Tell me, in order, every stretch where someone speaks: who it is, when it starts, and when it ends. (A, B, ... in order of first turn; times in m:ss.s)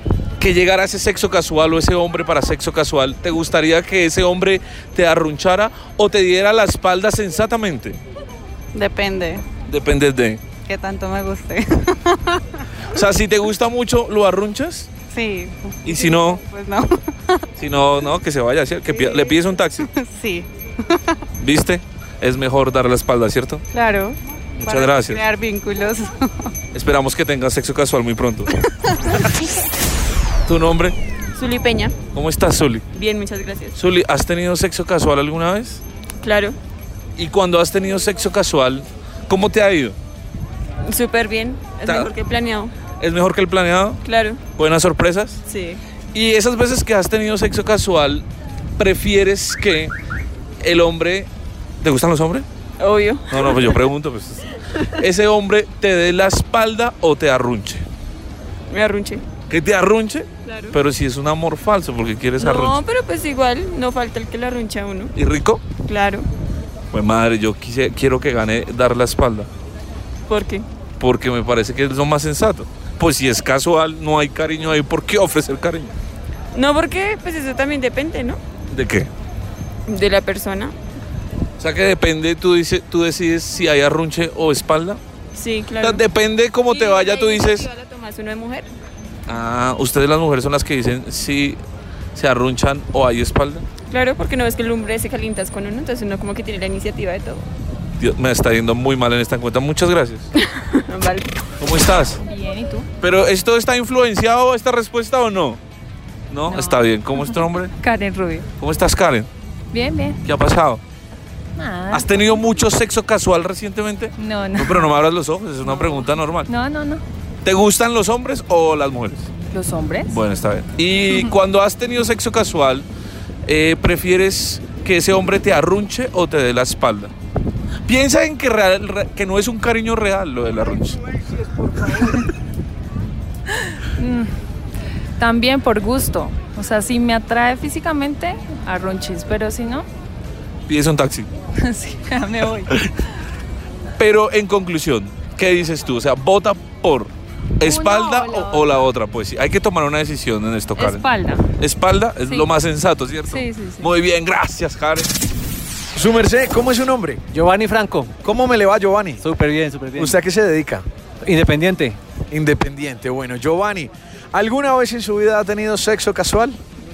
0:00.4-0:08.0 A
0:08.7-0:09.4 B
0:09.7-0:10.4 A
0:10.7-0:12.4 B
0:12.9-0:14.9 A
0:15.1-0:17.4 B
0:15.8-0:16.4 A
0:17.6-0:19.9 A
0:18.9-0:21.2 B
0:21.4-0:23.6 A
0:23.7-0:26.3 B
0:24.6-0:25.2 A
0:26.7-0:28.5 A
0:30.5-0:31.0 A
0:31.4-0:32.0 C
0:32.1-0:32.9 A
0:32.9-0:33.8 C
0:33.7-0:35.8 A
0:36.2-0:36.6 C
0:37.2-0:40.0 A
0:40.9-0:42.7 C
0:41.8-0:42.1 A
0:43.0-0:44.0 A
0:44.0-0:44.4 C
0:44.5-0:45.4 A
0:45.5-0:45.8 C
0:46.1-0:48.3 A
0:48.8-0:49.9 A
0:50.6-0:51.3 A
0:51.8-0:52.5 A
0:52.8-0:53.8 C
0:53.3-0:57.9 A
0:58.7-0:59.2 C
0:59.5-1:02.8 A
1:00.4-1:00.8 C
1:02.4-1:05.1 C
1:05.2-1:05.6 A
1:05.9-1:06.3 C
1:06.9-1:09.5 A
1:10.3-1:10.6 C
1:11.0-1:15.9 A
1:16.6-1:18.4 C
1:18.7-1:19.1 A
1:19.9-1:20.8 C
1:21.6-1:25.0 A
1:25.4-1:26.0 C
1:25.8-1:27.7 A
1:26.7-1:28.7 C
1:29.3-1:31.6 A
1:32.2-1:33.6 A
1:33.9-1:37.5 C
1:38.0-1:40.3 A
1:40.4-1:41.3 C
1:41.6-1:42.2 A
1:42.2-1:42.9 D
1:43.0-1:45.6 A
1:46.3-1:47.7 A
1:46.5-1:48.5 D
1:48.6-1:49.3 A
1:49.7-1:50.2 D
1:50.2-1:50.8 A
1:51.6-1:52.5 D
1:51.9-1:56.5 A
1:54.2-1:54.9 D
1:55.6-1:57.0 D
1:57.4-1:59.3 A
1:59.5-2:00.2 D
2:00.1-2:02.9 A
2:03.5-2:07.1 A
2:07.9-2:11.0 A
2:11.9-2:12.2 A
2:11.9-2:12.2 D
2:14.0-2:14.3 D
2:15.2-2:19.9 D
2:20.7-2:21.3 A
2:21.6-2:22.7 D
2:24.0-2:35.1 A
2:27.6-2:28.7 D
2:30.8-2:31.5 D
2:33.3-2:33.9 D
2:35.9-2:37.2 E
2:37.3-2:38.2 F
2:38.2-2:39.2 E
2:39.2-2:40.2 F
2:40.0-2:40.9 E
2:41.2-2:42.0 F
2:42.3-2:46.6 E